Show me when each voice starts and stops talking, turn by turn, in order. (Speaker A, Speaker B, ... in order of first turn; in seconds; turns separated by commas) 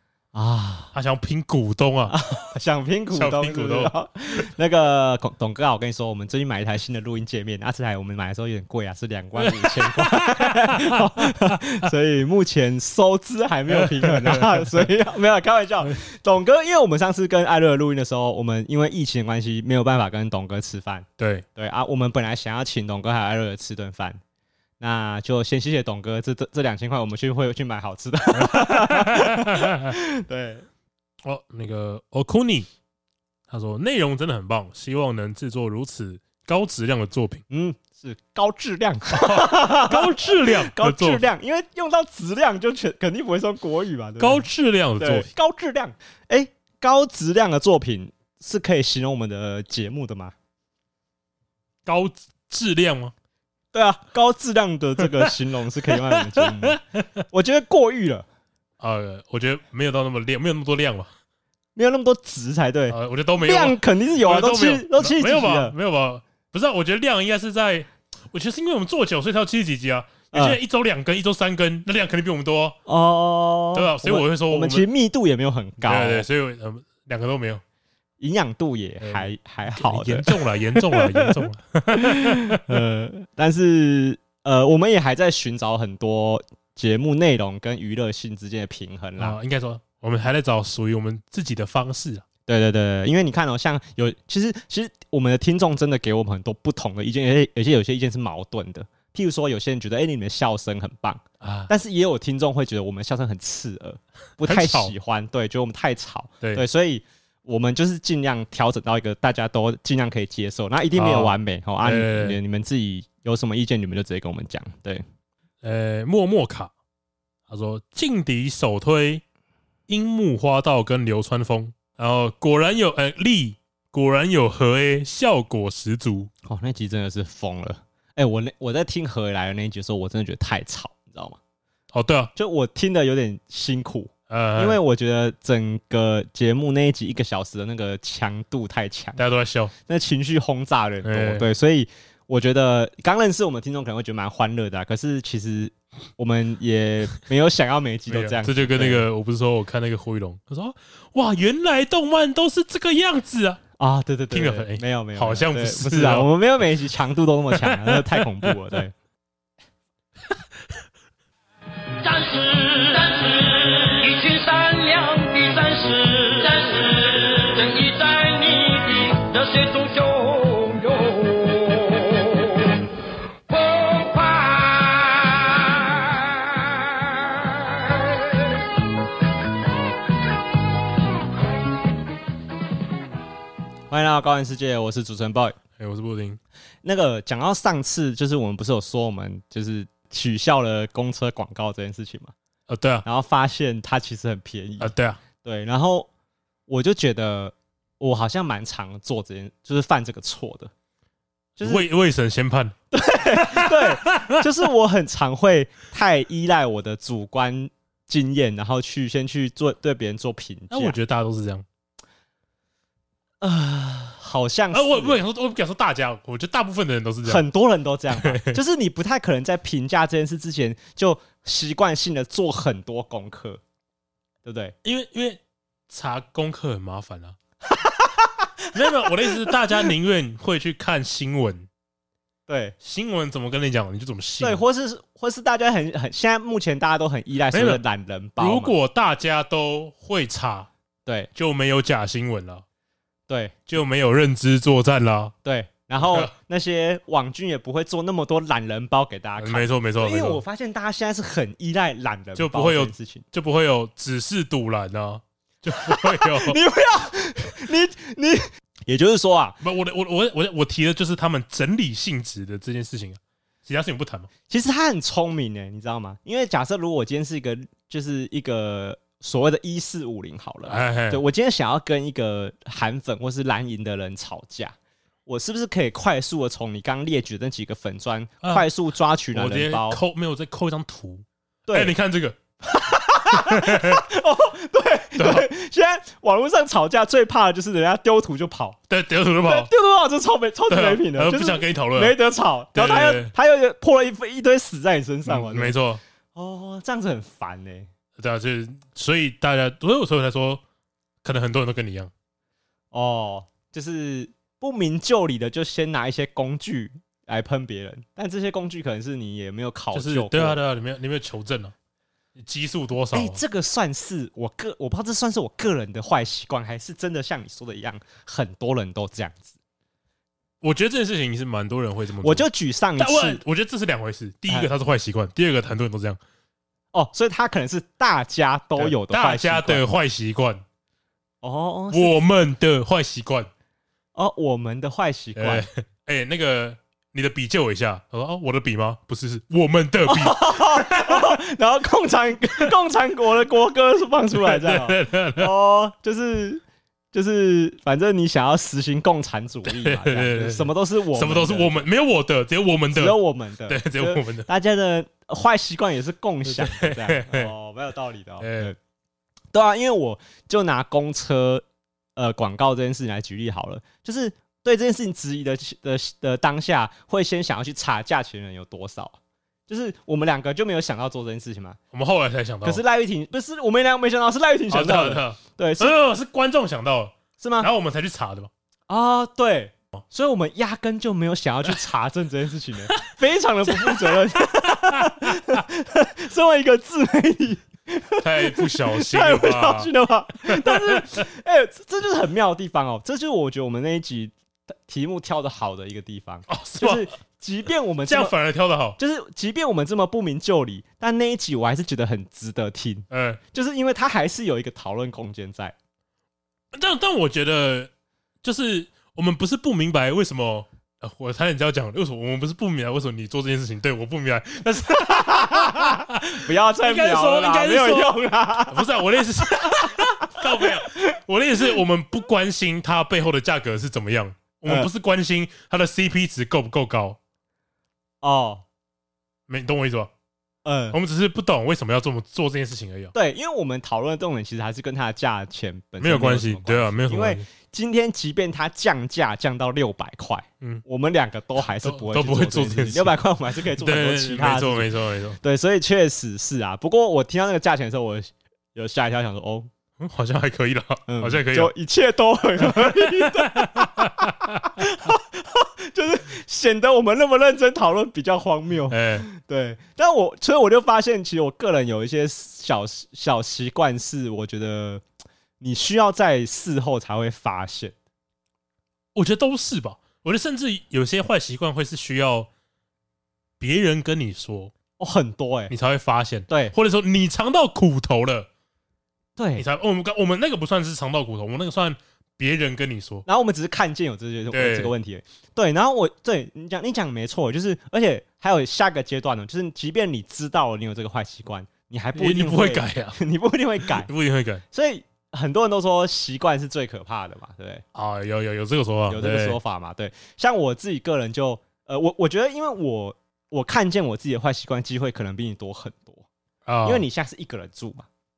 Speaker A: 0.3-0.9, Speaker B: 0.9-2.1, Speaker A: 2.1-24.2, Speaker B: 3.1-3.9, Speaker B: 9.4-11.6, Speaker B: 13.7-14.8, Speaker B: 21.2-21.4, Speaker A: 24.8-30.6, Speaker B: 28.3-29.9, Speaker B: 31.2-32.7, Speaker B: 33.5-37.4, Speaker A: 37.5-44.5, Speaker B: 39.1-41.2, Speaker B: 44.2-45.3, Speaker A: 45.0-50.3, Speaker B: 51.9-53.1, Speaker A: 53.7-58.2, Speaker B: 56.0-57.0, Speaker B: 58.8-61.1, Speaker A: 61.8-65.7, Speaker B: 62.9-72.8, Speaker A: 70.3-70.6, Speaker A: 72.8-76.3, Speaker B: 73.7-74.9, Speaker B: 75.8-77.6, Speaker A: 78.2-89.3, Speaker B: 79.0-82.8, Speaker B: 89.2-92.2, Speaker A: 92.5-115.0, Speaker B: 101.4-101.7, Speaker B: 104.4-104.9, Speaker B: 111.0-112.4, Speaker B: 115.6-116.7, Speaker B: 117.5-119.2, Speaker B: 119.9-126.3, Speaker A: 126.4-131.4, Speaker B: 131.9-132.3, Speaker A: 132.3-139.2, Speaker B: 134.3-134.8, Speaker B: 139.2-139.7, Speaker A: 139.8-149.1, Speaker B: 141.0-141.5, Speaker B: 148.1-153.6, Speaker A: 153.8-158.9, Speaker B: 154.3-156.3, Speaker B: 157.5-158.5, Speaker C: 162.0-172.6, Speaker C: 173.5-176.2, Speaker A: 183.9-185.6, Speaker B: 185.8-186.4, Speaker A: 186.8-192.3, Speaker B: 192.7-193.1, Speaker A: 193.0-196.1, Speaker B: 194.8-195.2, Speaker A: 196.7-200.7, Speaker A: 201.6-201.8, Speaker B: 201.6-202.7, Speaker A: 202.9-211.0, Speaker B: 203.3-204.4, Speaker B: 210.7-211.6, Speaker A: 213.4-215.2, Speaker B: 214.7-217.4, Speaker A: 217.2-223.6, Speaker B: 218.2-218.6, Speaker A: 224.4-224.7, Speaker B: 224.8-227.3, Speaker A: 227.7-229.6, Speaker B: 228.7-231.7, Speaker A: 232.5-232.8, Speaker B: 232.8-234.6, Speaker A: 234.4-238.7, Speaker B: 237.5-237.8, Speaker B: 238.4-240.7, Speaker A: 241.1-241.3, Speaker B: 241.3-242.6, Speaker A: 243.3-243.6, Speaker B: 243.7-245.3, Speaker A: 245.4-253.2, Speaker B: 246.0-246.3, Speaker B: 249.4-250.4, Speaker B: 252.3-256.6, Speaker A: 255.8-259.6, Speaker B: 259.6-264.3, Speaker A: 264.5-274.7, Speaker B: 270.6-271.2, Speaker A: 275.2-280.0, Speaker B: 279.3-282.4, Speaker A: 281.7-281.9, Speaker A: 282.6-288.8, Speaker B: 283.3-284.0, Speaker B: 285.1-285.5, Speaker B: 288.9-289.7, Speaker A: 289.4-295.8, Speaker B: 290.7-292.2, Speaker B: 292.7-293.3, Speaker B: 295.2-296.0, Speaker A: 296.3-297.9, Speaker B: 298.2-300.6, Speaker B: 301.2-302.1, Speaker A: 302.9-310.6, Speaker B: 309.9-311.7, Speaker B: 312.4-313.4, Speaker A: 313.1-319.6, Speaker B: 320.6-326.2, Speaker A: 322.2-323.4, Speaker A: 326.9-329.8, Speaker B: 328.8-330.6, Speaker A: 331.4-332.2, Speaker B: 331.9-333.5, Speaker A: 334.1-335.7, Speaker B: 335.4-341.4, Speaker A: 340.1-351.9, Speaker B: 344.3-345.5, Speaker B: 349.6-354.5, Speaker A: 352.9-358.8, Speaker B: 356.4-357.5, Speaker B: 358.4-358.7, Speaker A: 359.5-361.6, Speaker A: 362.1-371.8, Speaker B: 371.9-372.8, Speaker A: 372.6-375.9, Speaker B: 374.7-378.5, Speaker A: 377.4-377.7, Speaker A: 378.9-398.3, Speaker B: 383.7-385.5, Speaker B: 388.2-389.9, Speaker B: 390.4-391.2, Speaker B: 396.5-397.1, Speaker B: 398.1-399.0, Speaker A: 399.0-405.7, Speaker B: 403.1-403.4, Speaker B: 406.7-407.9, Speaker B: 408.4-427.2, Speaker A: 414.9-418.9, Speaker A: 419.6-421.0, Speaker A: 428.2-428.6, Speaker B: 429.5-430.1, Speaker A: 430.6-431.0, Speaker B: 430.9-433.1, Speaker A: 433.1-449.7, Speaker B: 436.0-437.4, Speaker B: 441.7-443.1, Speaker B: 443.8-445.4, Speaker B: 450.0-451.7, Speaker A: 451.1-465.0, Speaker B: 452.6-454.7, Speaker B: 458.9-459.3, Speaker A: 465.6-467.9, Speaker B: 469.1-472.5, Speaker B: 473.6-474.7, Speaker A: 475.0-475.7, Speaker B: 475.7-478.5, Speaker A: 476.5-476.7, Speaker A: 479.4-479.6, Speaker B: 479.6-483.2, Speaker A: 483.2-494.1, Speaker B: 484.5-484.9, Speaker B: 492.1-493.2, Speaker B: 493.8-494.6, Speaker A: 494.7-497.8, Speaker B: 497.9-499.6, Speaker A: 499.1-506.2, Speaker B: 506.6-507.0, Speaker A: 506.8-508.1